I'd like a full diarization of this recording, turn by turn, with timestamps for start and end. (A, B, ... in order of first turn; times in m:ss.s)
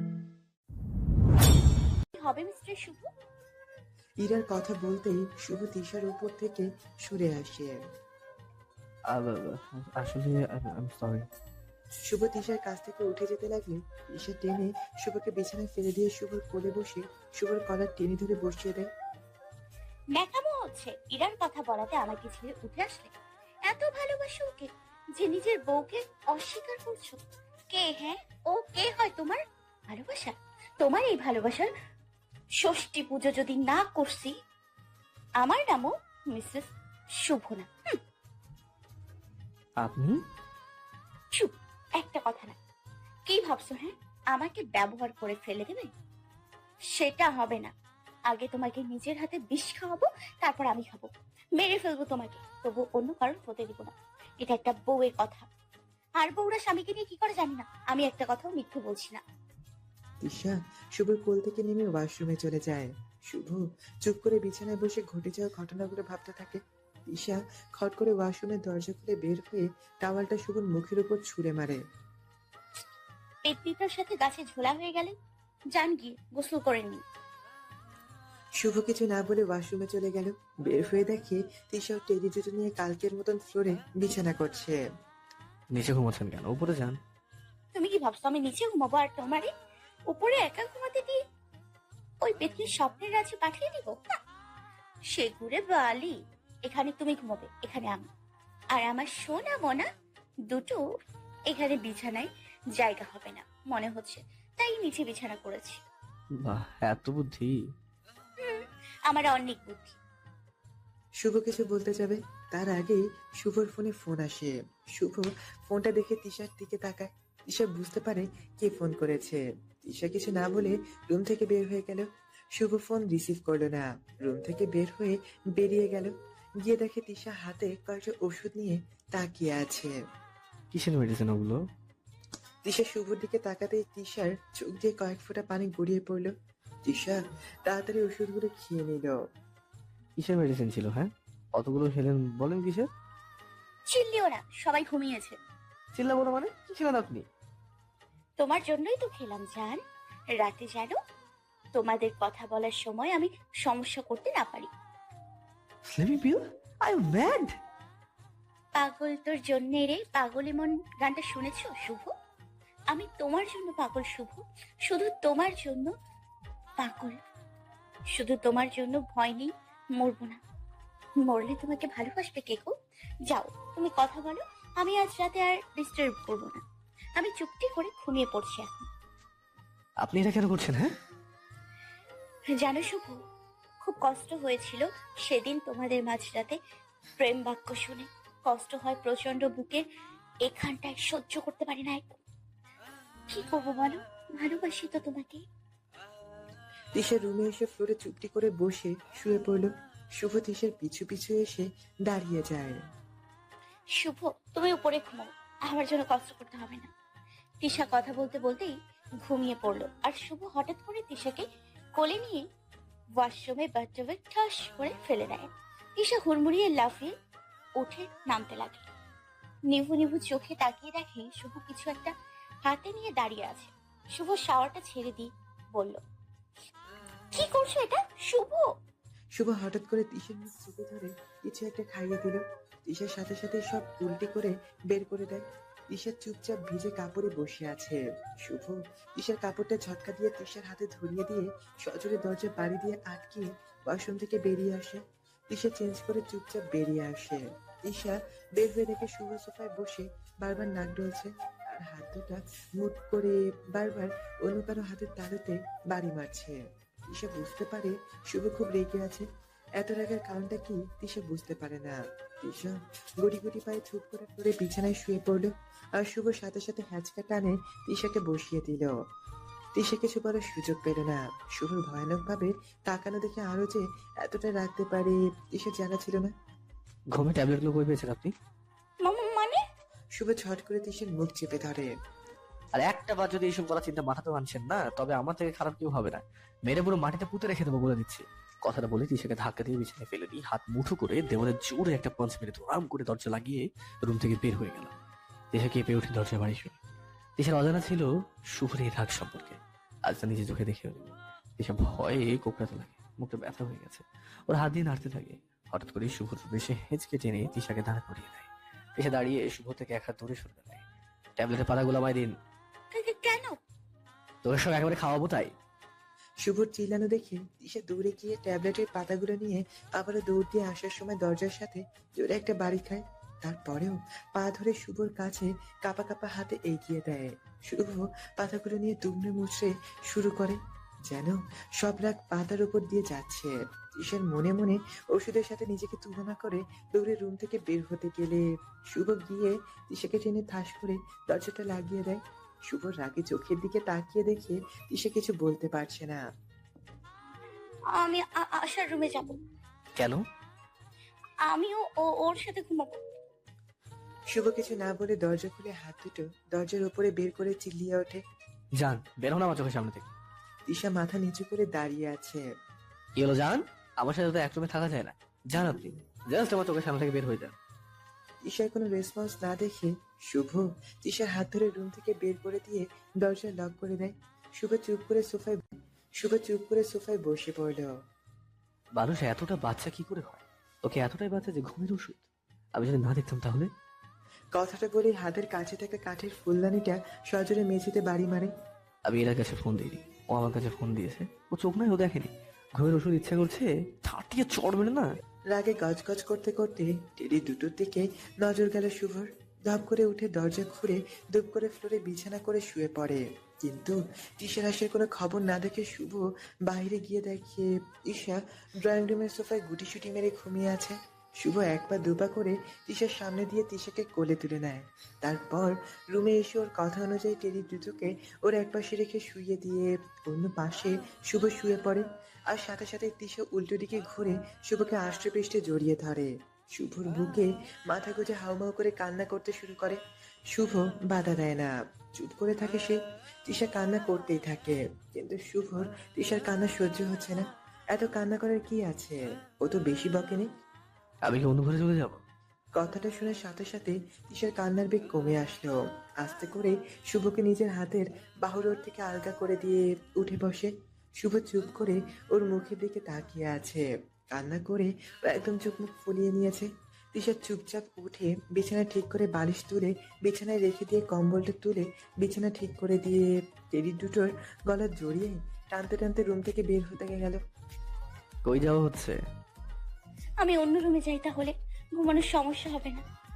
0:02.1-0:03.1 A
0:04.2-0:07.8 B
0:09.1-0:11.3 C
0:12.0-0:18.9 B
0:20.1-0:23.1 A
0:23.6-0:31.7 A
0:32.6-0:34.3 A
0:35.4-0:36.7 A
0:37.2-0:38.0 A
0:39.8-0:40.2 C
0:41.4-0:42.6 A
0:43.3-0:45.9 A
0:47.0-0:47.7 A
0:48.3-0:55.5 A
0:56.2-0:59.2 A
1:00.2-1:11.8 B
1:13.4-1:15.1 A
1:15.7-1:17.0 A
1:18.6-1:24.8 B
1:25.7-1:27.0 C
1:27.7-1:29.5 A
1:30.1-1:31.2 A
1:32.2-1:34.2 A
1:35.1-1:38.0 A
1:38.7-1:39.9 A
1:40.5-1:40.8 A
1:41.5-1:45.8 A
1:46.4-1:47.5 C
1:48.4-1:50.0 A
1:51.2-2:02.0 B
2:02.6-2:09.9 B
2:10.7-2:11.6 C
2:12.6-2:16.3 B
2:16.8-2:19.1 B
2:20.2-2:22.9 C
2:23.9-2:25.4 A
2:25.9-2:27.2 C
2:28.4-2:29.8 A
2:30.4-2:31.0 A
2:31.7-2:34.7 A
2:35.8-2:37.5 C
2:38.7-2:42.1 A
2:42.9-2:45.9 A
2:46.8-2:47.2 A
2:48.1-2:50.4 A
2:51.2-2:52.7 A
2:53.3-2:56.6 A
2:57.2-2:58.9 A
3:00.0-3:00.9 C
3:02.6-3:03.2 A
3:03.8-3:06.6 A
3:07.2-3:09.8 A
3:10.4-3:12.2 A
3:13.3-3:15.4 A
3:17.0-3:22.8 B
3:24.0-3:26.9 A
3:27.6-3:31.4 A
3:32.0-3:32.4 A
3:33.2-3:37.1 A
3:37.8-3:38.9 A
3:39.7-3:42.1 A
3:42.6-3:46.0 A
3:47.3-3:48.6 A
3:49.4-4:19.2 B
4:19.8-4:28.9 B
4:29.8-4:36.3 B
4:37.1-4:38.3 C
4:39.0-4:39.6 A
4:40.2-4:41.9 B
4:42.7-4:54.9 C
4:55.5-4:56.8 C
4:57.4-5:10.8 C
5:11.4-5:12.3 C
5:12.9-5:13.6 A
5:14.4-5:15.5 C
5:16.4-5:46.2 B
5:47.9-5:49.4 A
5:51.4-5:53.0 A
5:54.3-5:58.2 B
5:58.8-6:00.1 C
6:00.7-6:02.4 B
6:03.2-6:07.6 C
6:08.4-6:15.6 B
6:16.2-6:17.9 B
6:18.9-6:23.7 C
6:24.5-6:28.5 B
6:29.0-6:35.0 C
6:35.5-7:10.0 B
7:10.5-7:20.5 B
7:21.2-7:22.2 C
7:22.8-7:47.4 B
7:48.4-7:49.2 C
7:50.4-7:53.0 A